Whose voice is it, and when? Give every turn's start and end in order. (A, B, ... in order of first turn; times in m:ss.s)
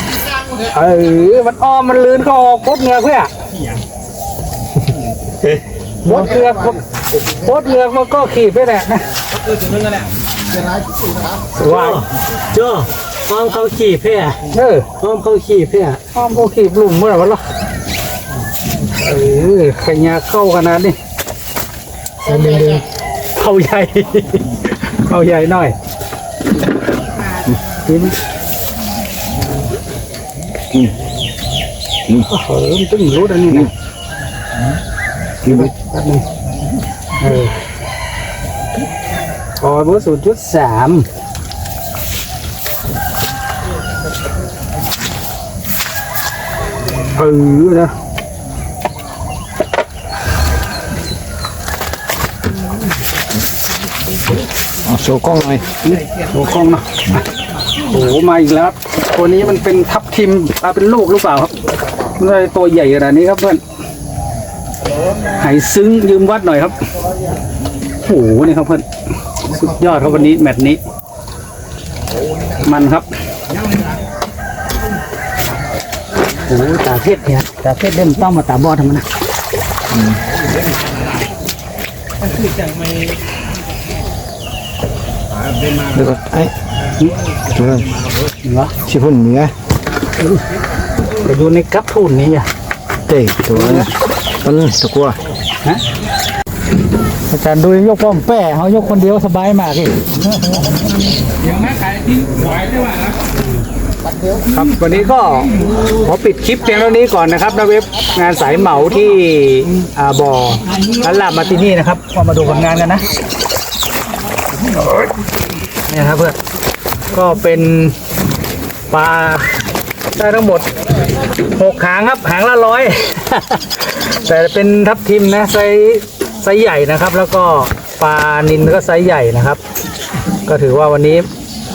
0:00.6-0:03.3 A
0:06.0-0:09.1 A
0:11.6-0:12.0 A
0:11.6-0:14.4 B
0:14.5-0:14.9 A
0:15.0-0:16.0 B
0:16.1-0:17.4 A
0:18.9-0:21.0 A
0:22.2-0:22.8 A
0:22.4-0:22.8 B
0:23.3-0:25.7 A
0:27.8-0:28.2 A
0:32.1-0:33.7 A
0:35.4-0:36.2 A
0:35.4-0:35.7 C
0:37.2-0:37.6 A
0:39.6-0:41.1 A
0:47.1-0:47.9 A
0:54.8-0:55.7 C
0:55.8-0:57.2 A
0:57.8-1:01.5 A
1:02.2-1:03.6 A
1:05.4-1:06.8 A
1:08.0-1:08.8 A
1:09.4-1:10.8 A
1:12.6-1:13.1 A
1:16.5-1:19.0 A
1:19.9-1:20.2 C
1:25.8-1:26.5 C
1:27.5-1:27.9 C
1:28.4-1:28.7 A
1:28.8-1:29.5 C
1:31.2-1:32.5 A
1:33.0-1:33.9 C
1:33.6-1:33.8 A
1:34.4-1:35.2 C
1:37.3-1:40.2 A
1:41.4-1:43.4 A
1:44.5-1:53.0 A
1:55.8-1:56.4 A
1:57.1-1:58.0 A
1:58.9-1:59.6 A
2:00.2-2:00.7 A
2:01.4-2:09.6 A
2:10.4-2:11.3 A